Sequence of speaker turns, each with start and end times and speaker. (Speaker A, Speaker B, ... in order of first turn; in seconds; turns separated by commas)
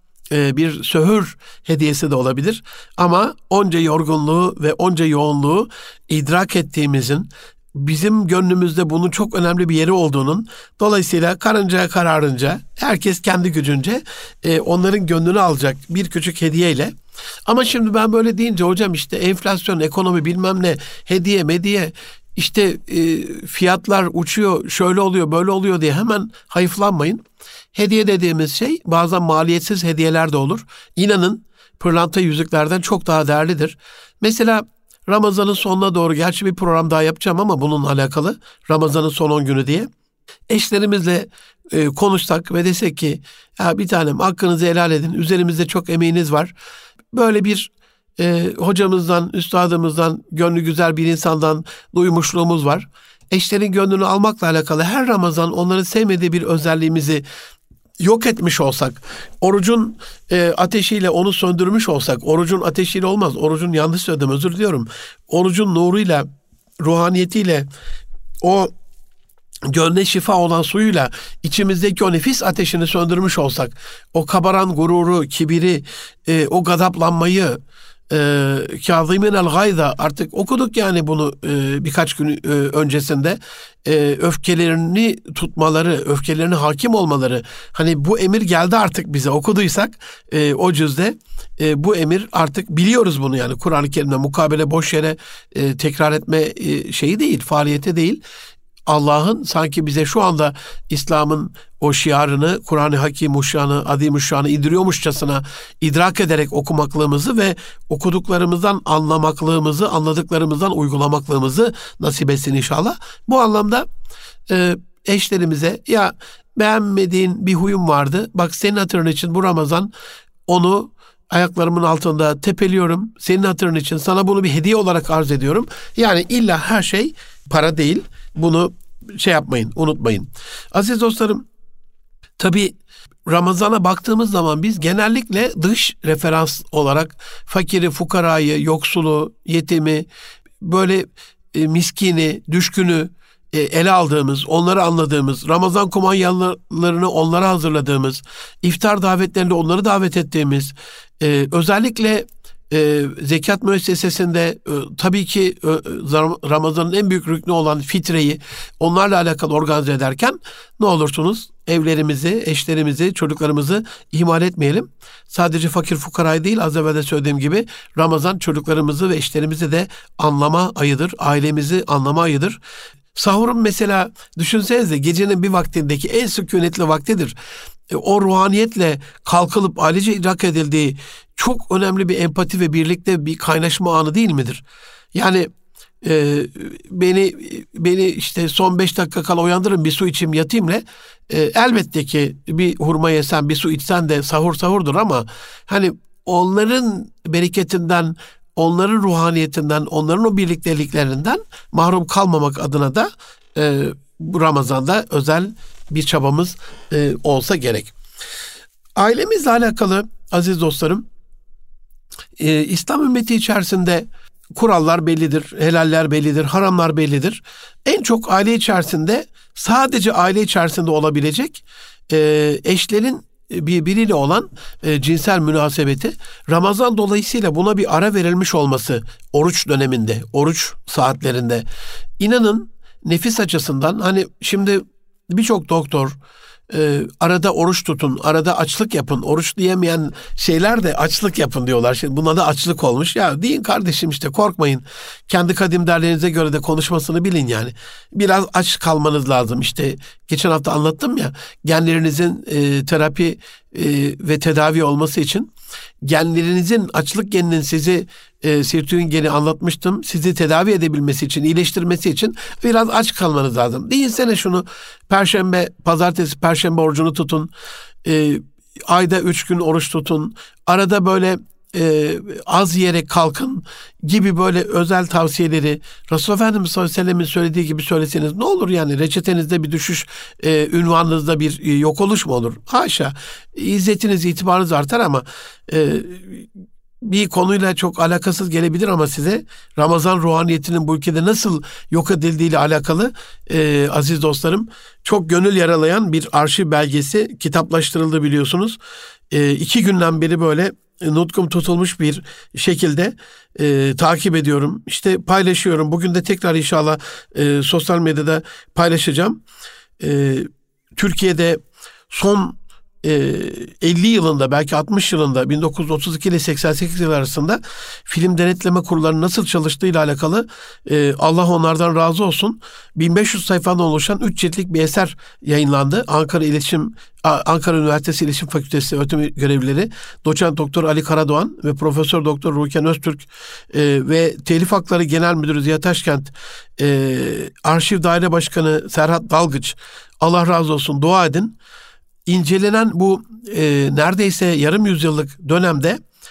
Speaker A: 0.3-16.9, Speaker A: 17.5-39.9, Speaker A: 40.5-46.5, Speaker A: 47.1-57.2, Speaker A: 58.0-66.3, Speaker A: 66.8-67.7, Speaker A: 68.4-68.7, Speaker A: 69.7-77.6, Speaker A: 78.1-98.2, Speaker A: 98.9-113.9, Speaker A: 114.5-119.9, Speaker A: 120.5-131.4, Speaker A: 132.4-132.8, Speaker A: 133.3-140.1, Speaker A: 140.6-172.6, Speaker A: 173.1-177.3, Speaker A: 177.9-184.6, Speaker A: 185.1-185.5, Speaker A: 186.0-207.9, Speaker A: 209.0-211.1, Speaker A: 212.4-214.1, Speaker A: 214.6-231.7, Speaker A: 232.2-236.2, Speaker A: 236.7-255.5, Speaker A: 256.0-267.5, Speaker A: 268.0-286.5, Speaker A: 287.0-298.8, Speaker A: 299.3-309.4, Speaker A: 310.0-341.6, Speaker A: 342.2-346.0